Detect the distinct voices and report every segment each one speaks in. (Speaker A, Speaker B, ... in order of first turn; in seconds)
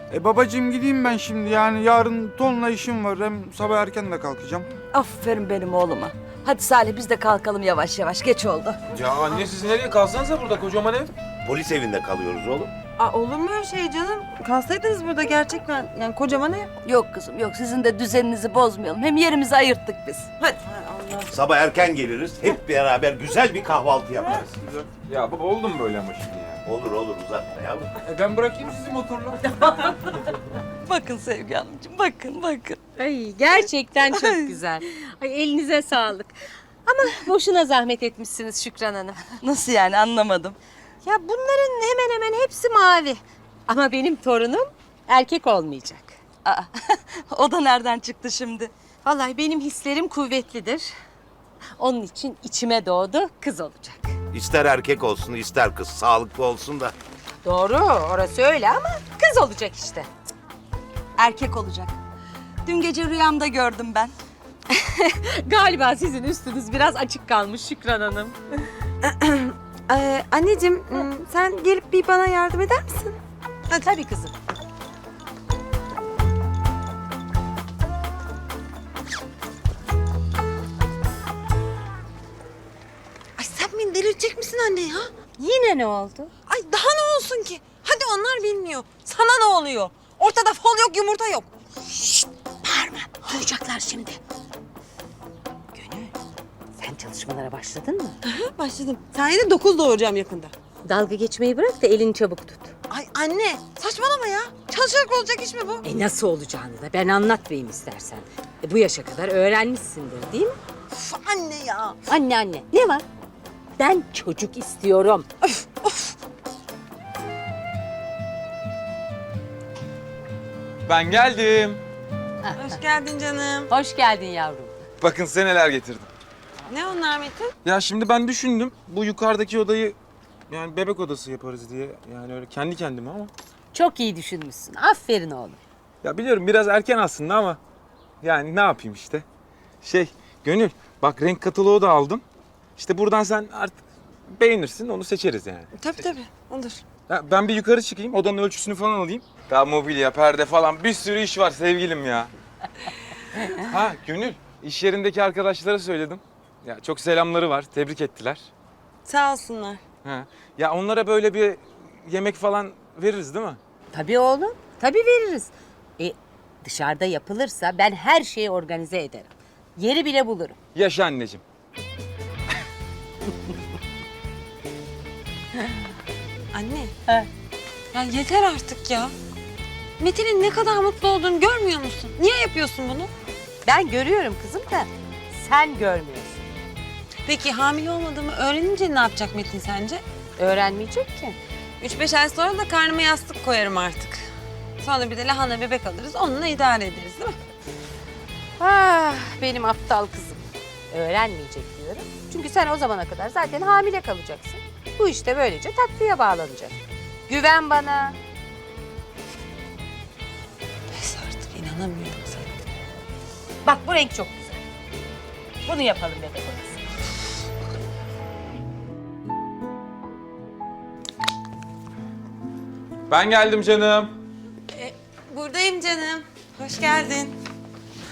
Speaker A: 0.1-4.7, 24.3-24.9, 28.0-29.5
Speaker B: 4.9-8.8, 16.9-20.4, 29.5-32.8, 34.2-34.5, 39.4-40.6, 46.5-48.7, 61.2-62.0, 62.6-64.2
Speaker C: 8.9-11.1, 25.1-26.6, 120.9-121.8, 125.0-126.1, 127.7-130.0, 130.5-133.3, 136.0-137.6, 138.2-139.2, 139.8-142.2, 142.8-145.7, 147.1-152.3, 153.4-158.5, 160.0-163.6, 170.8-171.4, 223.1-224.2
Speaker D: 11.4-12.7, 21.3-24.5, 26.6-27.9, 54.3-57.0
Speaker E: 13.0-16.7, 20.4-21.3, 69.0-73.2, 83.4-85.1, 86.5-91.5, 98.2-100.5, 102.9-105.9, 110.9-112.0, 115.8-116.1, 122.5-123.7, 126.7-127.5, 145.8-146.8, 159.1-159.8, 176.5-176.9, 177.9-179.1, 180.0-183.1, 187.3-190.0, 191.8-194.2, 194.8-197.4, 210.9-212.6, 224.7-227.4
Speaker F: 33.0-36.3, 36.9-39.4, 41.0-46.2, 49.0-50.9, 51.8-54.1, 57.4-60.1, 64.7-68.4, 73.8-74.3, 85.4-86.3, 91.9-94.2, 95.7-96.1, 96.8-98.2, 100.8-102.7, 105.8-110.6, 112.1-113.0, 113.8-115.5, 122.4-122.7, 123.7-124.7, 133.7-135.6, 163.9-170.6, 183.7-186.5, 190.4-191.4, 198.6-206.8, 207.3-208.2, 213.7-214.6, 215.7-216.8